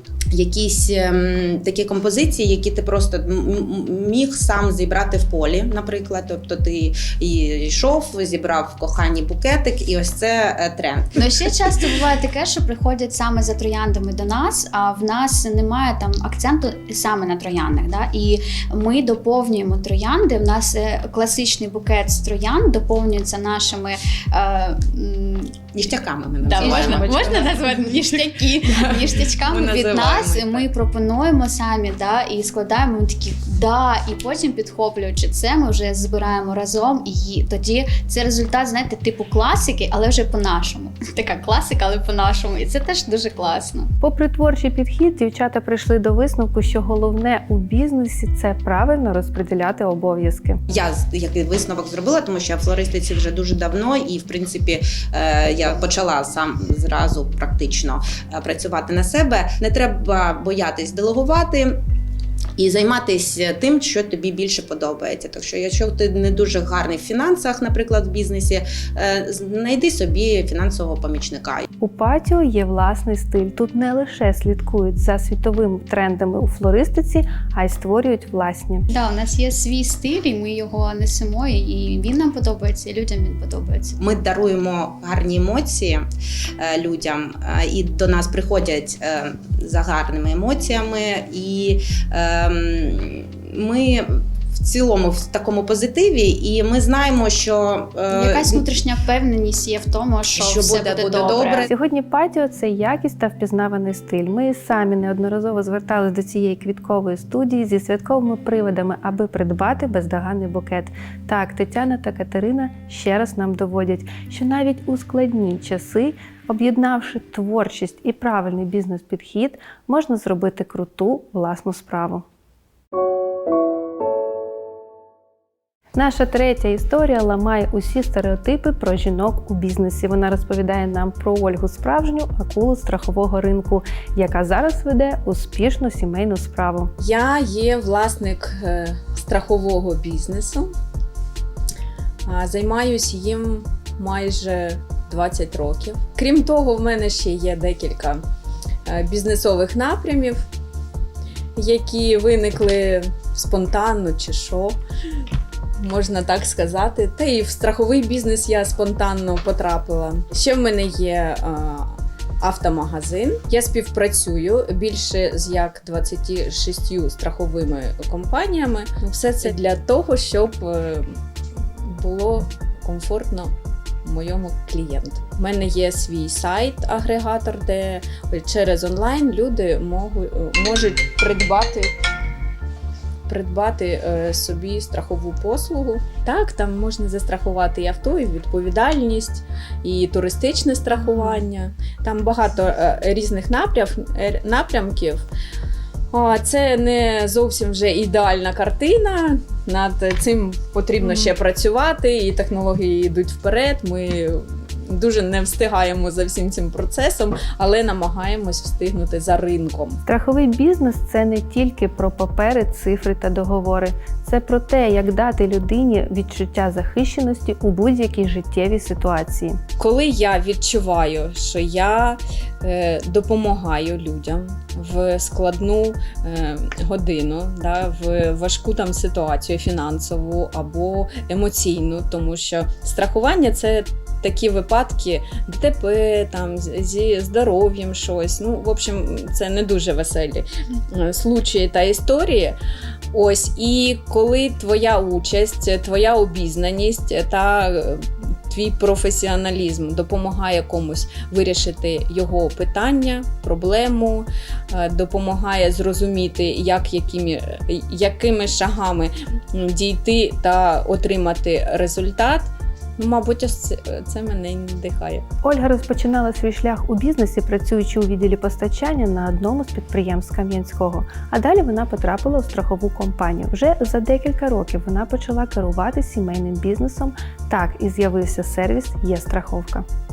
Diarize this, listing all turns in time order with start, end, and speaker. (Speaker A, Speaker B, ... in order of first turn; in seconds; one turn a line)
Speaker A: 0.3-11.3
Speaker B: 11.2-25.5
Speaker A: 25.7-27.9
Speaker B: 26.4-43.9
Speaker A: 28.9-30.7
Speaker C: 44.0-50.5
Speaker A: 50.7-61.8
Speaker A: 62.6-71.6
Speaker C: 71.8-78.8
Speaker B: 78.9-84.0
Speaker A: 84.0-86.0
Speaker A: 86.6-98.7
Speaker B: 98.1-101.6
Speaker A: 100.3-101.7
Speaker C: 101.7-122.2
Speaker C: 126.0-136.9
Speaker D: 137.0-140.7
Speaker D: 142.2-148.2
Speaker D: 148.8-150.4
Speaker D: 151.6-154.8
Speaker D: 155.8-171.1
Speaker D: 171.8-173.5
Speaker D: 174.0-181.9
Speaker D: 183.3-195.2
Speaker D: 196.1-210.0
Speaker C: 210.1-219.6
Speaker D: 219.8-242.6
Speaker D: 243.1-265.2
Speaker C: 265.4-279.8